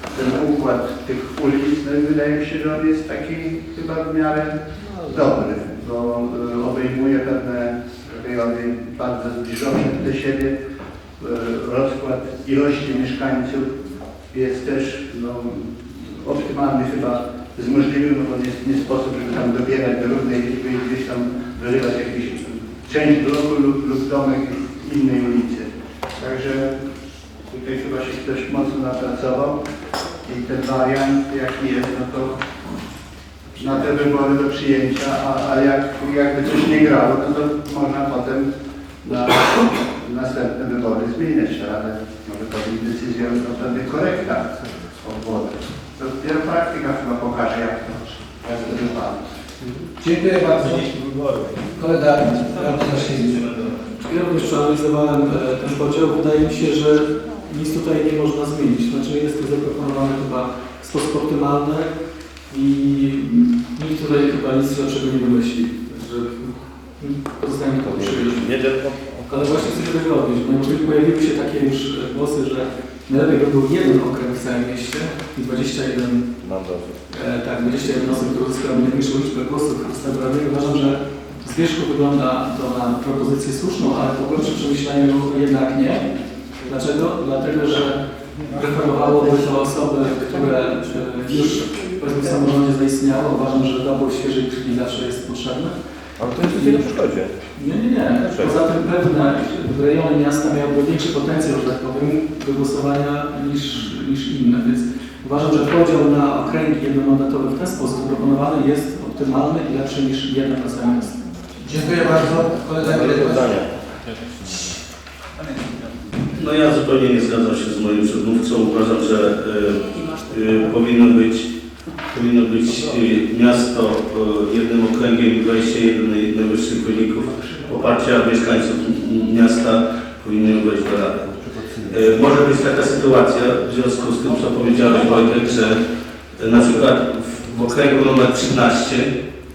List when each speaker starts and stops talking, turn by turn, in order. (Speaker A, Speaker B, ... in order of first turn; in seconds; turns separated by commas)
Speaker A: 0.1-4.5, Speaker A: 5.0-10.5, Speaker A: 11.2-13.7, Speaker A: 14.3-26.7, Speaker A: 27.5-29.5, Speaker A: 30.2-32.3, Speaker A: 33.6-38.5, Speaker A: 39.0-44.4, Speaker A: 45.0-49.2, Speaker B: 50.0-50.8, Speaker B: 51.8-53.5, Speaker C: 54.0-61.9, Speaker C: 62.5-68.5, Speaker D: 67.8-69.5, Speaker C: 69.3-76.2, Speaker D: 76.4-76.9, Speaker C: 77.1-86.1, Speaker C: 86.6-88.0, Speaker C: 88.5-95.7, Speaker D: 96.2-97.3, Speaker C: 96.4-96.9, Speaker C: 97.5-111.2, Speaker D: 98.1-98.5, Speaker B: 111.6-113.6, Speaker D: 112.9-113.6, Speaker E: 116.3-121.5, Speaker E: 122.1-131.3, Speaker D: 131.3-132.6, Speaker E: 131.9-135.8, Speaker E: 136.4-139.1